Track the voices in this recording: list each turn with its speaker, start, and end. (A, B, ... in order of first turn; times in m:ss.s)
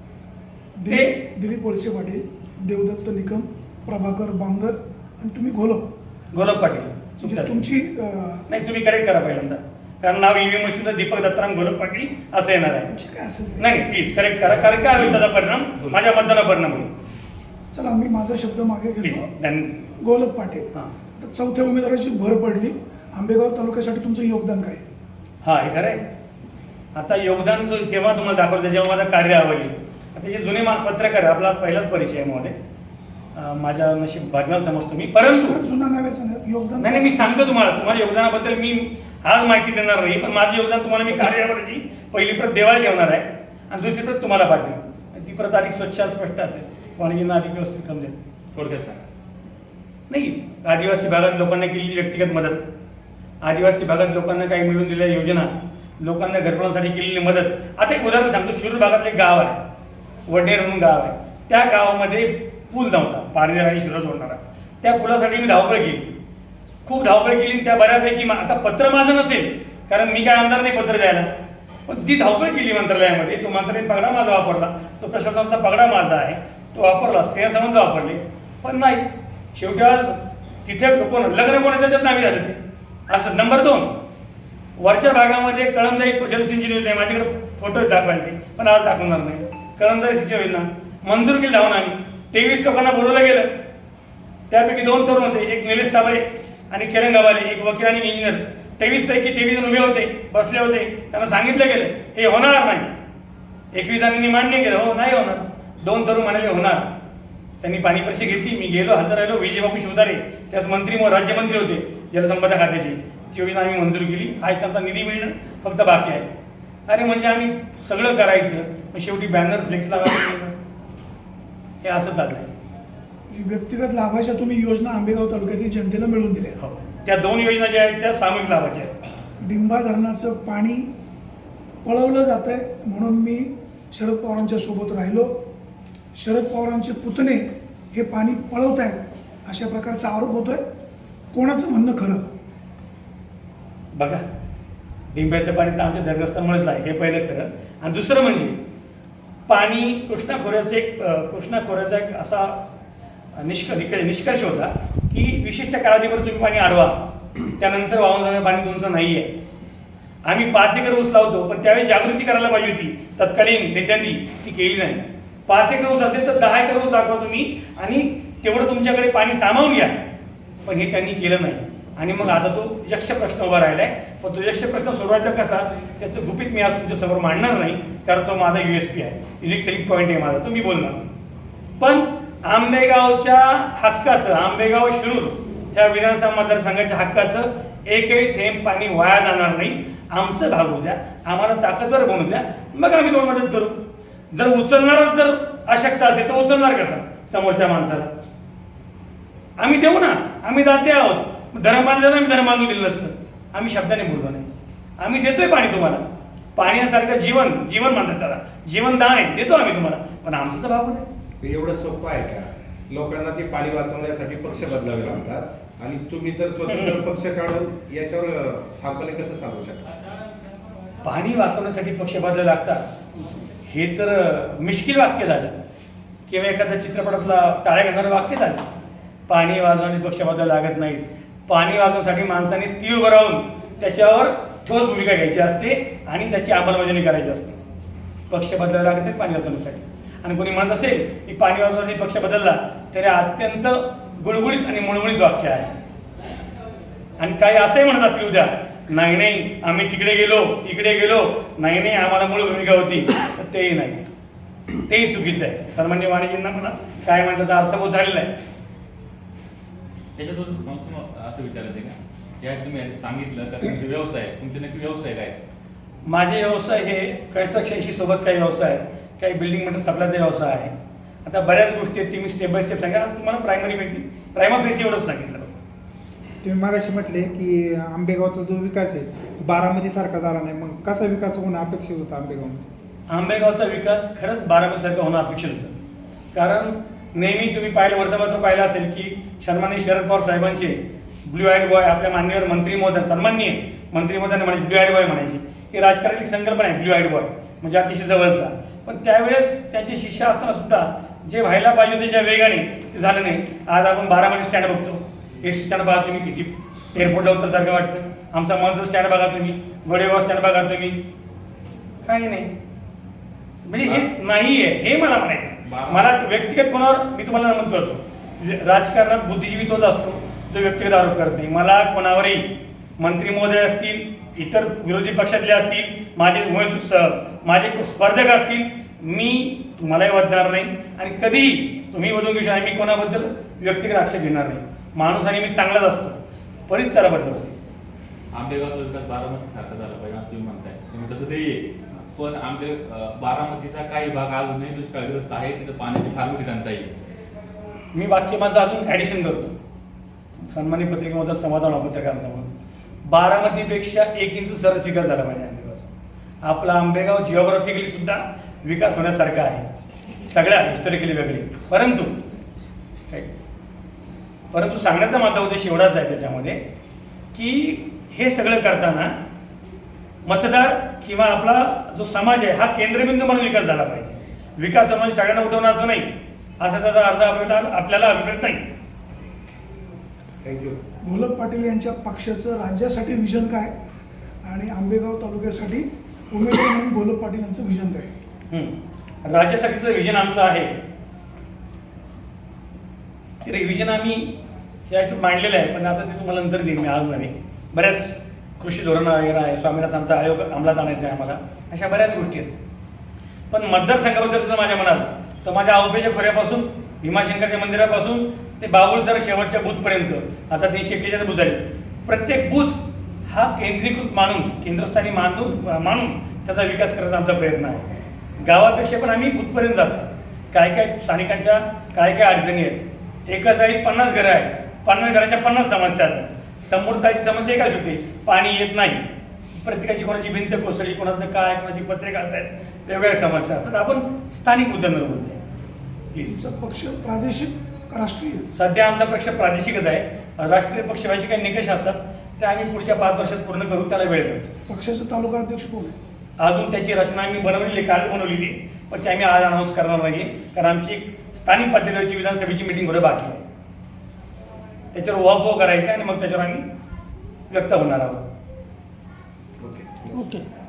0:00.8-0:05.8 A
0:00.9-0:01.2 B
0:06.3-0:07.6 B
0:07.2-0:08.4 A
0:08.5-0:12.9 B
0:12.9-0:13.8 A
0:13.6-0:16.9 B
0:17.7-0:19.3 A
0:19.0-0:19.8 B
0:20.0-0:24.8 A
0:25.4-0:26.0 B
0:27.0-0:32.6 B
0:33.4-0:35.6 B
0:35.2-0:37.5 A
0:36.8-0:48.2 B
0:48.5-0:49.0 C
0:50.1-0:52.6 B
0:53.4-0:59.6 B
1:00.3-1:06.1 B
1:06.8-1:11.3 B
1:11.9-1:22.6 B
1:23.1-1:23.9 B
1:24.8-1:33.5 B
1:34.5-1:42.9 B
1:43.7-1:46.9 B
1:47.6-1:56.3 B
1:56.9-2:00.6 B
2:01.8-2:02.5 B
2:03.3-2:06.6 A
2:06.6-2:08.9 B
2:09.4-2:10.9 A
2:11.8-2:15.3 A
2:16.2-2:20.6 A
2:21.3-2:22.2 A
2:23.9-2:24.2 B
2:25.1-2:28.6 B
2:29.5-2:32.6 B
2:33.4-2:37.0 B
2:37.6-2:39.3 B
2:40.2-2:50.0 B
2:50.6-3:01.0 B
3:01.8-3:13.8 B
3:14.3-3:18.1 B
3:19.6-3:24.5 B
3:25.0-3:26.0 B
3:26.6-3:31.1 B
3:31.4-3:39.9 D
3:36.7-3:37.0 B
3:41.0-3:42.8 B
3:43.7-3:45.5 B
3:46.3-3:48.6 B
3:49.3-3:57.6 B
3:58.3-4:05.7 B
4:07.2-4:14.0 B
4:14.8-4:18.3 B
4:20.2-4:25.4 C
4:26.0-4:30.7 B
4:31.2-4:35.5 B
4:36.4-4:42.6 E
4:43.1-4:45.7 B
4:46.3-5:11.0 B
5:12.0-5:12.5 B
5:13.6-5:36.2 B
5:15.6-5:16.1 C
5:36.7-5:37.5 B
5:38.3-5:46.9 C
5:47.9-5:49.6 B
5:50.5-5:52.5 B
5:53.1-5:55.9 B
5:56.4-5:59.6 B
6:00.3-6:02.2 B
6:04.5-6:06.6 B
6:07.3-6:09.2 B
6:10.2-6:16.1 B
6:16.6-6:18.6 B
6:20.4-6:20.8 D
6:21.0-6:23.7 A
6:24.4-6:28.1 A
6:29.2-6:30.7 B
6:33.4-6:34.3 B
6:34.9-6:42.5 B
6:43.5-6:52.8 B
6:53.3-7:09.1 B
7:09.6-7:15.4 B
7:16.1-7:16.4 B
7:16.2-7:18.5 A
7:18.5-7:24.5 B
7:24.7-7:26.0 A
7:26.4-7:33.4 B
7:34.9-7:36.6 B
7:37.5-7:38.2 B
7:39.6-7:40.4 D
7:40.2-7:40.4 A